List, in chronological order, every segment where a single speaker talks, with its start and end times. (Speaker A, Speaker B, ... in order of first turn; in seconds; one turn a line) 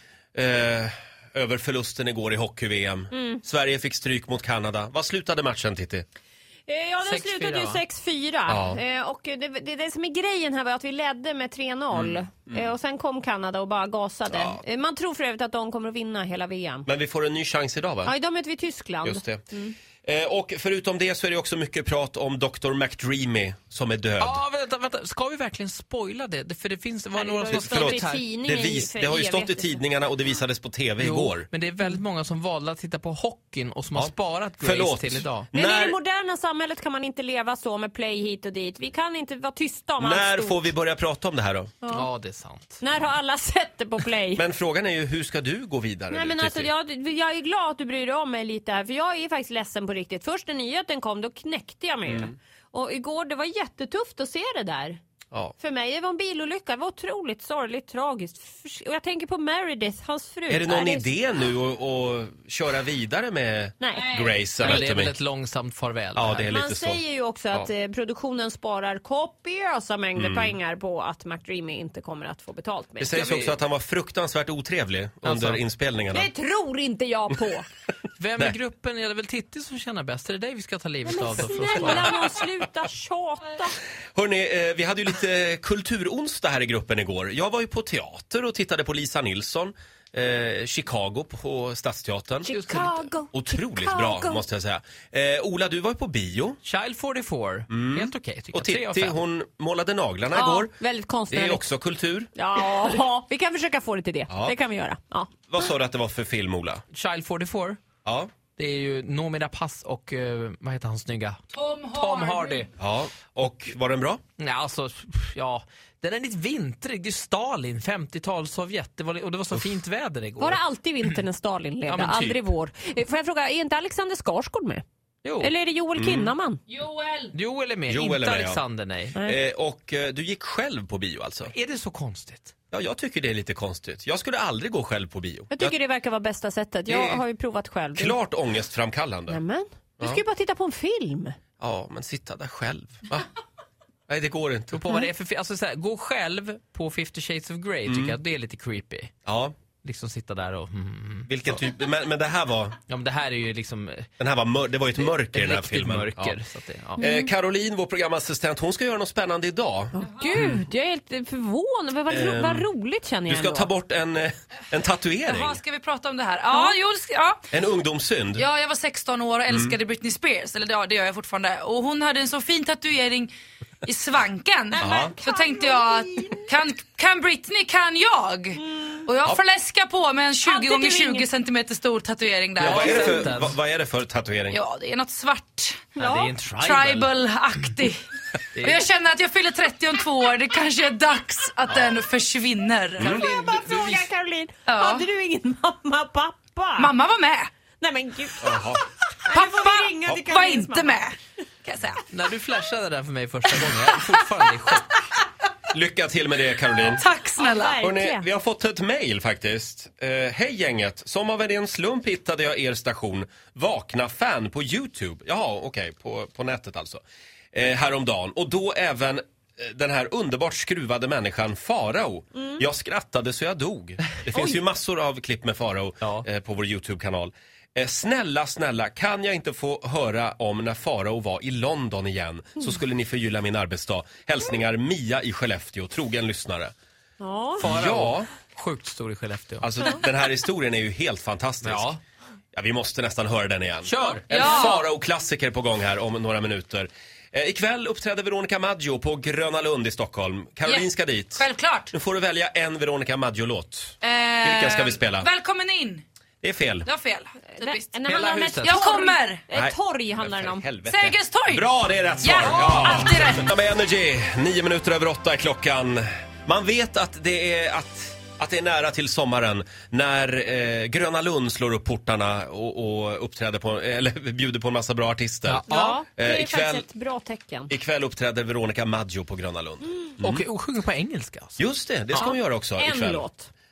Speaker A: 0.3-6.0
Speaker B: 3.1-3.4
Speaker B: 6.7-16.9
Speaker C: 7.0-7.8
Speaker A: 8.5-8.8
Speaker A: 11.9-12.7
Speaker A: 14.3-14.6
Speaker A: 16.8-18.1
Speaker B: 18.0-19.7
Speaker A: 19.0-19.4
Speaker A: 20.0-24.4
Speaker C: 24.2-28.3
Speaker B: 27.1-29.8
Speaker A: 27.5-31.5
Speaker C: 31.0-35.5
Speaker A: 34.0-36.0
Speaker B: 35.5-40.7
Speaker A: 40.0-41.7
Speaker C: 41.9-42.8
Speaker B: 42.8-44.5
Speaker A: 44.3-46.7
Speaker B: 46.1-55.0
Speaker A: 52.0-52.3
Speaker B: 55.6-61.1
Speaker A: 60.5-65.2
Speaker B: 63.8-64.8
Speaker C: 64.6-66.5
Speaker A: 66.1-67.0
Speaker B: 66.5-73.2
Speaker A: 70.2-70.5
Speaker A: 73.0-76.3
Speaker C: 73.1-73.6
Speaker C: 75.2-75.6
Speaker B: 76.1-77.6
Speaker C: 78.2-82.2
Speaker B: 81.0-83.7
Speaker A: 84.1-92.5
Speaker B: 92.4-94.4
Speaker C: 92.5-93.1
Speaker A: 93.3-96.6
Speaker C: 96.6-99.2
Speaker A: 97.7-100.8
Speaker B: 100.3-101.7
Speaker A: 101.3-102.3
Speaker B: 102.3-105.4
Speaker A: 104.3-104.6
Speaker A: 105.5-106.8
Speaker C: 106.9-107.8
Speaker A: 108.0-108.3
Speaker C: 108.5-112.7
Speaker D: 111.5-112.6
Speaker A: 112.8-114.2
Speaker C: 114.4-121.2
Speaker B: 120.4-124.8
Speaker C: 121.9-122.4
Speaker C: 125.2-125.5
Speaker B: 125.4-126.6
Speaker A: 126.0-126.3
Speaker D: 126.7-127.3
Speaker C: 127.3-129.2
Speaker A: 127.9-128.6
Speaker B: 129.1-129.4
Speaker A: 129.2-131.5
Speaker C: 131.5-132.5
Speaker A: 132.7-135.8
Speaker B: 135.5-138.2
Speaker A: 136.9-137.2
Speaker A: 137.9-139.4
Speaker B: 139.3-141.4
Speaker A: 141.6-143.3
Speaker A: 144.1-144.8
Speaker C: 144.7-149.1
Speaker A: 147.9-148.2
Speaker A: 149.2-149.5
Speaker C: 149.8-151.6
Speaker A: 151.3-152.8
Speaker C: 152.9-154.1
Speaker A: 154.2-156.4
Speaker C: 155.0-157.0
Speaker B: 157.0-157.3
Speaker A: 157.0-160.6
Speaker B: 159.9-163.7
Speaker A: 162.1-162.7
Speaker A: 163.2-165.6
Speaker D: 165.3-167.4
Speaker B: 166.5-166.8
Speaker A: 167.5-168.4
Speaker D: 168.4-173.3
Speaker A: 169.5-169.8
Speaker D: 173.8-183.0
Speaker B: 174.8-176.4
Speaker A: 174.8-175.1
Speaker B: 178.6-179.1
Speaker B: 180.4-181.3
Speaker C: 182.6-183.5
Speaker A: 182.6-184.6
Speaker D: 184.5-185.9
Speaker C: 186.0-187.1
Speaker B: 186.0-186.3
Speaker D: 186.6-188.0
Speaker C: 188.5-188.8
Speaker D: 188.6-193.1
Speaker C: 191.7-191.9
Speaker A: 193.0-193.3
Speaker B: 193.0-196.9
Speaker C: 193.1-194.0
Speaker D: 194.7-195.0
Speaker D: 196.8-197.5
Speaker B: 197.8-201.1
Speaker A: 198.4-198.8
Speaker D: 199.3-201.2
Speaker D: 201.7-202.0
Speaker C: 202.1-205.0
Speaker A: 205.7-207.0
Speaker D: 207.0-207.7
Speaker B: 207.3-208.3
Speaker A: 207.8-217.0
Speaker A: 217.5-236.7
Speaker B: 222.4-222.7
Speaker B: 237.2-237.6
Speaker A: 237.6-238.3
Speaker C: 237.6-239.7
Speaker A: 239.6-241.9
Speaker C: 241.6-242.0
Speaker A: 242.5-255.3
Speaker C: 243.8-244.2
Speaker D: 244.3-244.8
Speaker B: 244.3-244.7
Speaker D: 250.6-251.9
Speaker D: 254.0-256.0
Speaker A: 256.4-256.9
Speaker D: 256.8-258.0
Speaker B: 257.4-260.8
Speaker C: 258.0-258.8
Speaker D: 258.6-259.4
Speaker A: 259.5-276.9
Speaker D: 260.8-261.6
Speaker D: 262.2-263.5
Speaker C: 275.5-276.0
Speaker B: 275.7-277.7
Speaker A: 277.7-280.4
Speaker C: 280.2-282.3
Speaker A: 281.6-283.2
Speaker B: 282.2-283.5